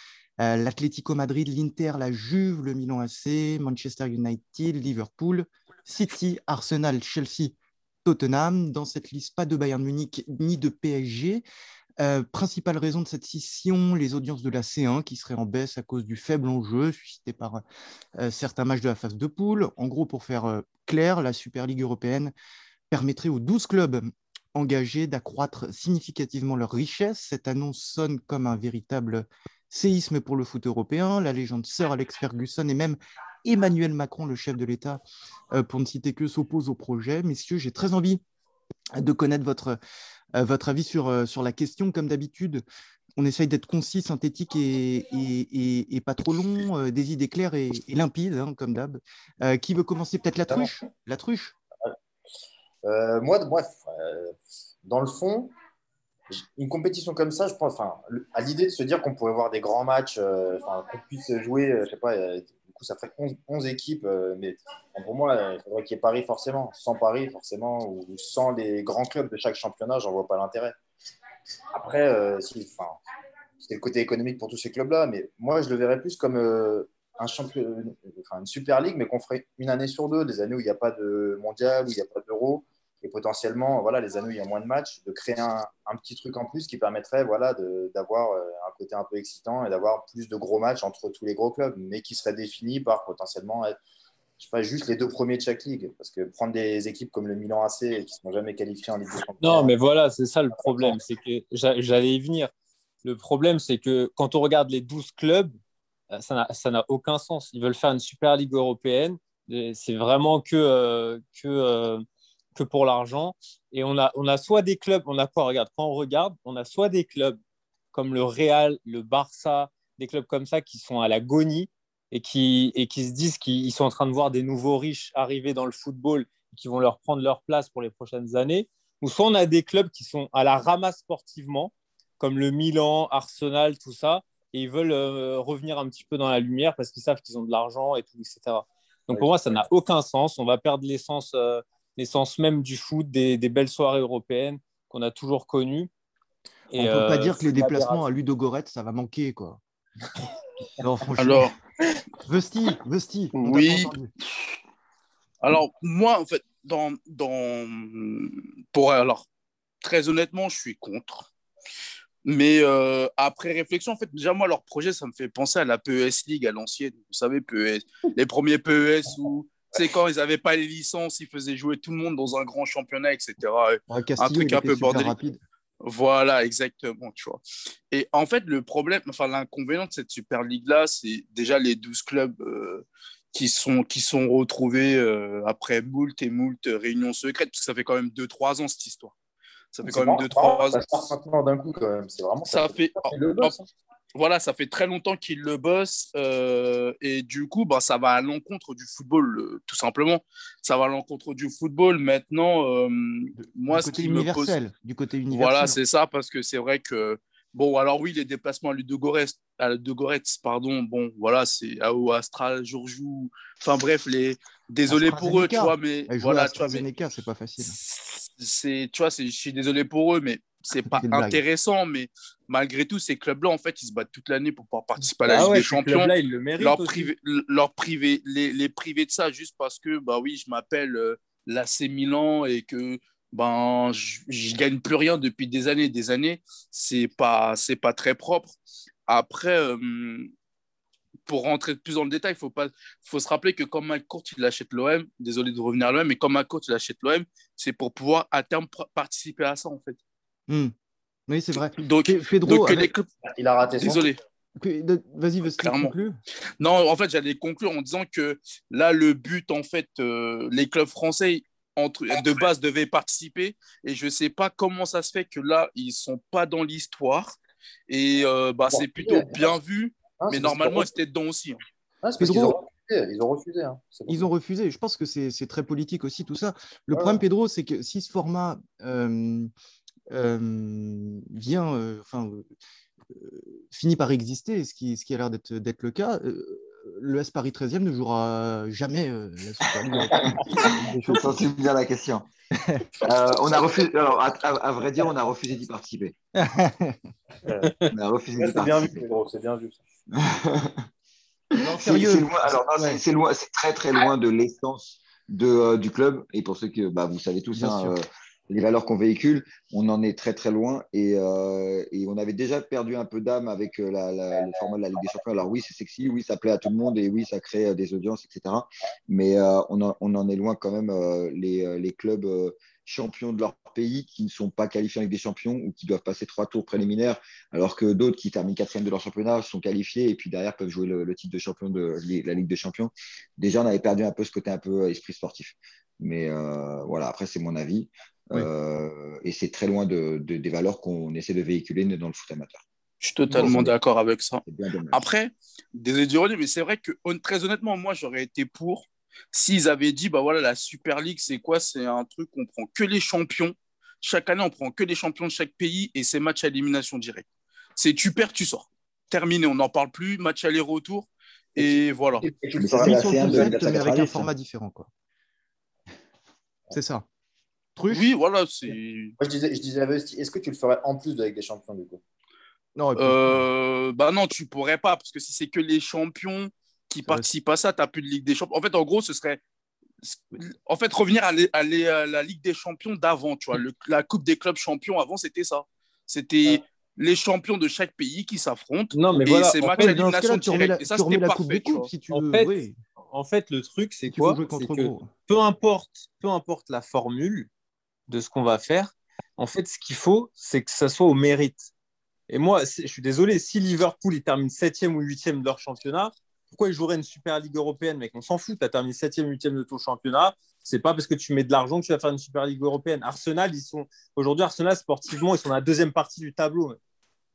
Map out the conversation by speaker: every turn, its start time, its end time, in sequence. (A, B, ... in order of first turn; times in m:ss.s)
0:00.4-0:11.4 A
0:12.0-0:17.6 A
0:18.2-0:22.3 A
0:22.9-0:35.0 A
0:35.5-0:38.2 A
0:39.0-0:39.8 A
0:40.3-0:42.6 A
0:43.2-0:51.5 A
0:52.8-0:55.5 B
0:56.3-1:10.8 B
1:11.7-1:13.0 B
1:13.6-1:33.8 B
1:34.4-1:39.7 B
1:39.4-1:42.5 C
1:40.7-1:41.0 B
1:43.0-1:45.6 C
1:46.1-1:52.0 C
1:52.5-1:57.4 C
1:57.9-2:25.9 C
2:19.1-2:19.6 B
2:26.7-2:28.0 C
2:26.8-2:29.6 A
2:30.8-2:31.5 A
2:31.2-2:31.5 D
2:32.2-2:34.1 A
2:33.4-2:33.9 D
2:35.4-2:39.2 D
2:39.8-2:41.3 D
2:42.2-2:55.1 D
2:53.9-2:55.4 A
2:55.8-3:09.1 D
3:09.7-3:11.0 D
3:09.8-3:13.7 B
3:12.4-3:13.5 D
3:14.1-3:24.6 D
3:23.4-3:25.8 A
3:25.3-3:36.8 D
3:34.9-3:37.8 A
3:37.6-3:58.6 D
3:40.9-3:41.4 A
3:45.2-3:47.1 C
3:59.1-4:00.3 D
4:01.3-4:10.0 D
4:11.3-4:12.9 A
4:11.5-4:13.1 D
4:13.2-4:14.0 B
4:13.7-4:14.2 D
4:14.6-4:16.2 A
4:15.6-4:15.9 D
4:16.6-4:27.4 D
4:27.9-4:31.6 D
4:28.7-4:29.5 B
4:30.2-4:30.9 B
4:32.0-4:34.3 B
4:32.2-4:32.6 A
4:34.1-4:39.5 A
4:36.9-4:37.2 B
4:40.1-4:42.4 A
4:43.1-4:51.4 A
4:49.8-4:52.3 E
4:53.0-4:56.1 E
4:56.3-4:57.0 A
4:57.5-4:57.7 B
4:57.6-4:57.9 C
4:57.8-4:59.1 E
4:58.4-4:59.8 B
5:00.1-5:00.9 E
5:01.6-5:03.0 A
5:01.7-5:42.6 E
5:07.5-5:07.9 A
5:14.3-5:15.2 B
5:43.0-5:57.2 D
5:43.3-5:43.7 E
5:43.3-5:43.6 A
5:44.4-5:45.1 E
5:57.8-6:02.2 D
6:01.6-6:03.6 B
6:02.6-6:04.3 E
6:02.8-6:04.9 A
6:06.7-6:07.0 A
6:07.8-6:08.1 A
6:07.9-6:09.2 D
6:09.2-6:12.0 B
6:12.8-6:13.4 A
6:13.0-6:19.4 D
6:20.0-6:31.9 D
6:28.9-6:30.0 C
6:29.8-6:32.8 A
6:32.1-6:32.5 C
6:33.1-6:37.5 C
6:34.0-6:35.1 A
6:38.1-6:41.7 C
6:42.3-6:56.8 C